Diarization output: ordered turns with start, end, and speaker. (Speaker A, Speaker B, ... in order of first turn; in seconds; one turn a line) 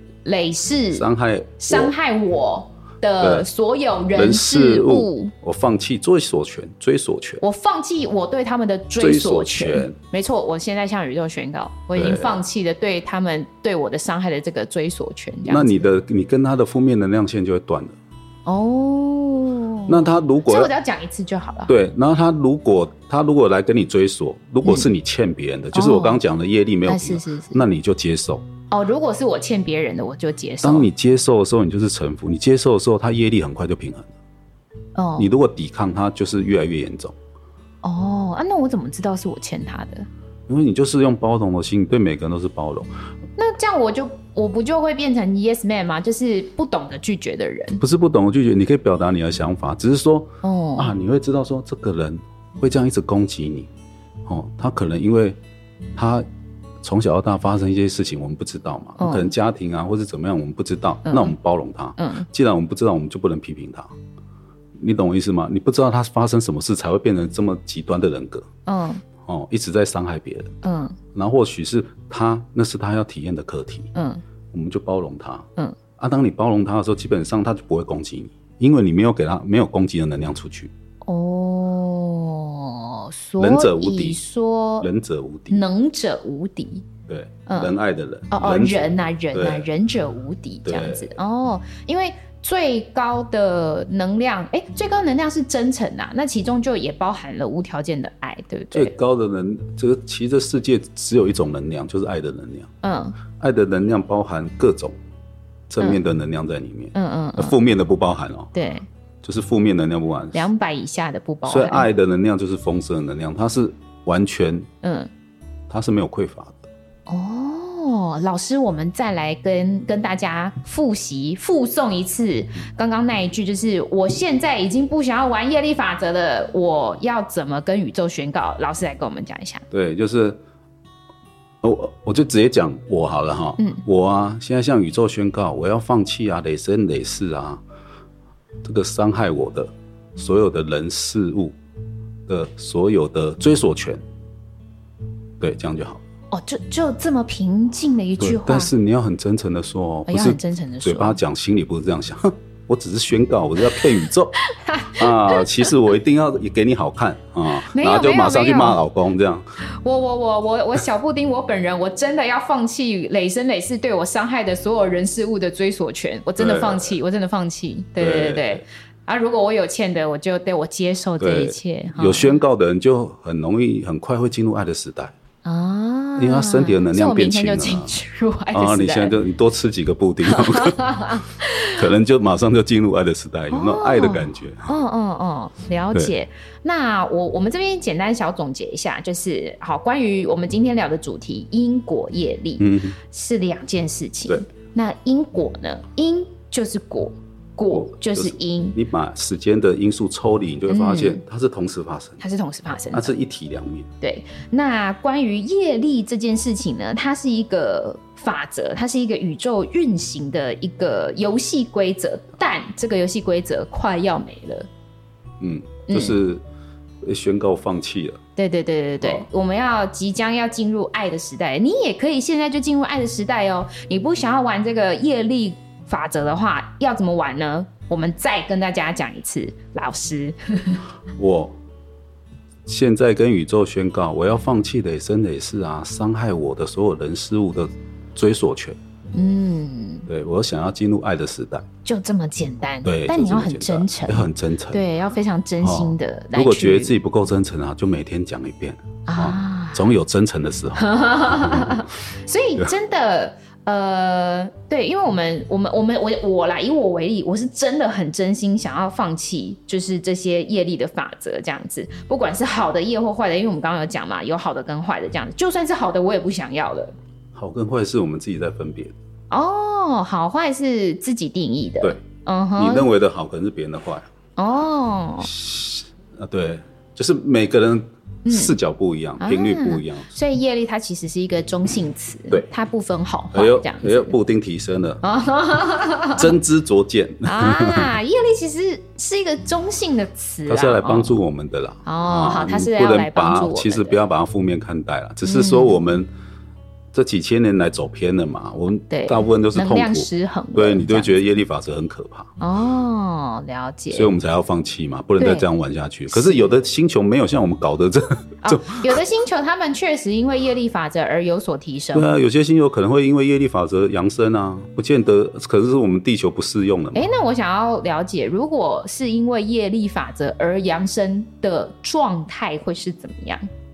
Speaker A: 0.2-1.1
Speaker B: 0.9-1.9
Speaker A: 1.6-5.3
Speaker B: 3.2-3.5
Speaker B: 4.1-7.4
Speaker A: 7.4-15.9
Speaker B: 9.0-9.9
Speaker B: 11.9-12.4
Speaker B: 15.5-18.0
Speaker A: 18.5-21.7
Speaker B: 19.9-20.7
Speaker B: 21.7-28.5
Speaker A: 24.6-24.9
Speaker A: 25.7-26.2
Speaker A: 26.9-27.6
Speaker A: 28.7-30.9
Speaker B: 30.6-34.1
Speaker A: 35.0-35.3
Speaker B: 35.2-37.1
Speaker A: 37.8-40.1
Speaker B: 40.5-42.9
Speaker A: 43.4-47.8
Speaker B: 47.8-53.7
Speaker A: 50.4-51.0
Speaker B: 54.3-55.4
Speaker B: 56.0-56.3
Speaker B: 56.8-63.9
Speaker A: 59.0-59.3
Speaker A: 61.1-61.4
Speaker A: 62.0-62.3
Speaker B: 64.8-68.5
Speaker A: 68.7-69.0
Speaker B: 69.2-70.5
Speaker A: 70.6-71.0
Speaker B: 71.1-73.9
Speaker A: 74.0-74.2
Speaker B: 74.5-80.7
Speaker A: 81.0-84.9
Speaker B: 83.4-84.2
Speaker B: 84.8-85.6
Speaker A: 85.5-86.9
Speaker B: 87.1-89.7
Speaker A: 87.5-87.7
Speaker A: 88.3-98.9
Speaker B: 90.7-91.1
Speaker B: 98.7-102.7
Speaker A: 102.8-103.2
Speaker B: 103.3-105.0
Speaker B: 105.7-108.5
Speaker A: 107.0-107.6
Speaker A: 108.5-108.9
Speaker B: 109.2-110.5
Speaker A: 110.3-111.9
Speaker B: 111.5-114.7
Speaker A: 114.8-115.1
Speaker B: 115.7-116.6
Speaker A: 117.1-129.6
Speaker B: 129.7-130.4
Speaker B: 131.6-137.6
Speaker B: 138.6-141.6
Speaker B: 142.3-144.0
Speaker B: 145.4-146.0
Speaker A: 146.3-148.7
Speaker B: 148.2-154.4
Speaker A: 150.1-151.2
Speaker A: 153.6-155.7
Speaker B: 154.9-159.6
Speaker A: 157.5-158.8
Speaker A: 159.6-172.4
Speaker B: 166.4-167.0
Speaker B: 168.0-168.6
Speaker B: 171.2-175.1
Speaker A: 175.4-179.2
Speaker B: 176.2-177.9
Speaker B: 178.5-184.8
Speaker A: 180.2-181.8
Speaker A: 183.5-198.8
Speaker B: 192.6-193.0
Speaker B: 197.7-202.2
Speaker A: 200.7-201.2
Speaker A: 202.2-203.1
Speaker B: 202.9-203.9
Speaker A: 204.0-214.7
Speaker B: 215.4-216.4
Speaker A: 215.9-216.2
Speaker B: 217.0-218.2
Speaker A: 218.4-230.8
Speaker B: 219.0-219.3
Speaker B: 231.2-231.6
Speaker B: 232.7-238.8
Speaker A: 239.1-240.1
Speaker B: 240.1-241.7
Speaker A: 241.8-246.9
Speaker B: 242.8-244.8
Speaker B: 245.6-251.9
Speaker A: 249.1-249.8
Speaker A: 250.8-266.9
Speaker B: 267.3-268.9
Speaker A: 269.3-272.9
Speaker B: 272.6-274.1
Speaker A: 274.4-275.3
Speaker B: 275.2-280.1
Speaker A: 278.2-278.6
Speaker A: 279.2-284.2
Speaker B: 283.3-285.0
Speaker A: 285.0-286.4
Speaker B: 286.2-287.9
Speaker A: 287.2-291.2
Speaker B: 290.5-296.1
Speaker A: 291.9-294.0
Speaker A: 295.2-295.8
Speaker B: 296.9-302.3
Speaker A: 298.9-301.2
Speaker A: 302.4-304.1
Speaker B: 303.9-309.0
Speaker A: 305.2-305.5
Speaker A: 306.1-306.5
Speaker A: 308.4-312.1
Speaker B: 311.9-317.1
Speaker A: 316.9-323.5